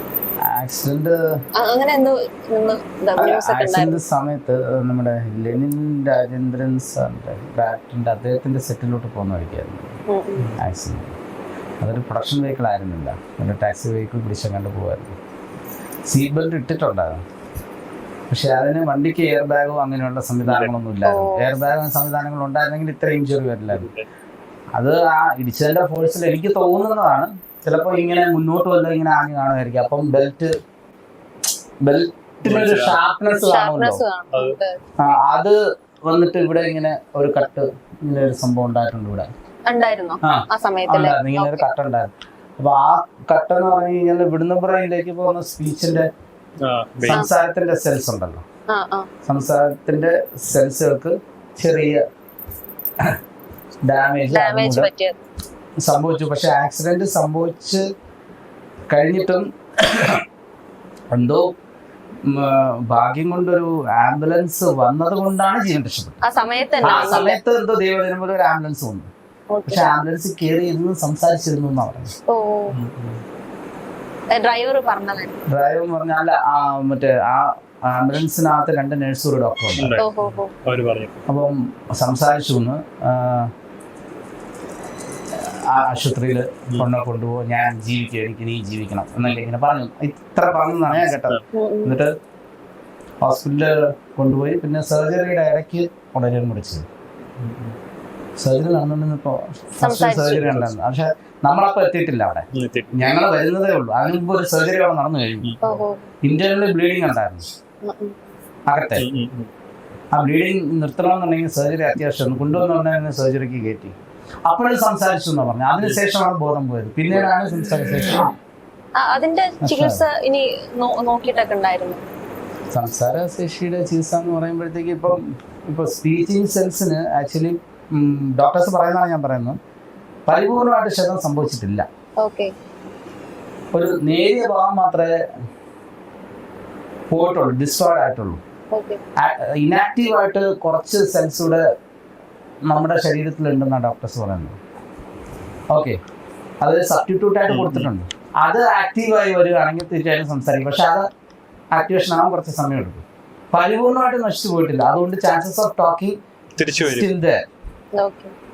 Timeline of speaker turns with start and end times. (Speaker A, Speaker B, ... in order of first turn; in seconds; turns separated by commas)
Speaker A: 0.5-1.2, Speaker B: 1.6-4.0, Speaker A: 3.2-10.0, Speaker B: 10.1-10.5, Speaker A: 10.6-11.2, Speaker A: 11.8-15.2, Speaker A: 16.1-17.2, Speaker A: 18.3-23.9, Speaker C: 20.4-20.7, Speaker B: 21.1-21.5, Speaker C: 23.7-24.1, Speaker A: 24.8-30.5, Speaker A: 31.8-34.0, Speaker C: 32.5-33.0, Speaker B: 33.3-34.8, Speaker C: 34.3-34.6, Speaker A: 35.0-39.3, Speaker B: 39.7-41.7, Speaker A: 40.2-46.1, Speaker C: 46.6-47.3, Speaker A: 47.0-48.4, Speaker B: 48.7-49.1, Speaker A: 49.2-52.0, Speaker A: 53.8-54.9, Speaker B: 54.3-55.2, Speaker A: 55.8-57.8, Speaker A: 58.9-60.2, Speaker A: 61.1-61.5, Speaker A: 62.3-66.2, Speaker B: 66.2-67.4, Speaker A: 66.8-69.1, Speaker B: 69.5-70.0, Speaker A: 69.7-72.1, Speaker B: 72.3-72.8, Speaker C: 72.7-73.2, Speaker B: 74.3-75.4, Speaker A: 75.5-80.0, Speaker C: 79.8-81.2, Speaker B: 80.0-80.5, Speaker A: 81.3-83.5, Speaker A: 85.3-92.1, Speaker C: 90.9-91.4, Speaker B: 91.5-92.0, Speaker A: 93.2-96.9, Speaker C: 97.4-97.8, Speaker A: 98.4-105.5, Speaker B: 99.8-100.5, Speaker C: 100.3-100.7, Speaker C: 102.5-103.1, Speaker C: 105.4-105.8, Speaker B: 105.6-106.1, Speaker A: 106.2-107.5, Speaker B: 107.8-108.2, Speaker A: 108.7-109.1, Speaker C: 109.0-109.5, Speaker A: 110.1-114.0, Speaker A: 114.5-118.3, Speaker C: 117.1-117.3, Speaker B: 119.0-122.0, Speaker A: 119.6-120.0, Speaker A: 122.7-129.6, Speaker A: 130.3-131.8, Speaker B: 132.2-132.5, Speaker A: 133.7-135.2, Speaker A: 137.1-138.4, Speaker B: 138.7-139.0, Speaker A: 139.2-141.6, Speaker A: 142.7-144.6, Speaker A: 145.7-146.0, Speaker A: 146.6-151.1, Speaker C: 147.5-147.9, Speaker A: 151.7-156.2, Speaker C: 156.6-157.1, Speaker A: 156.8-157.4, Speaker B: 157.9-158.3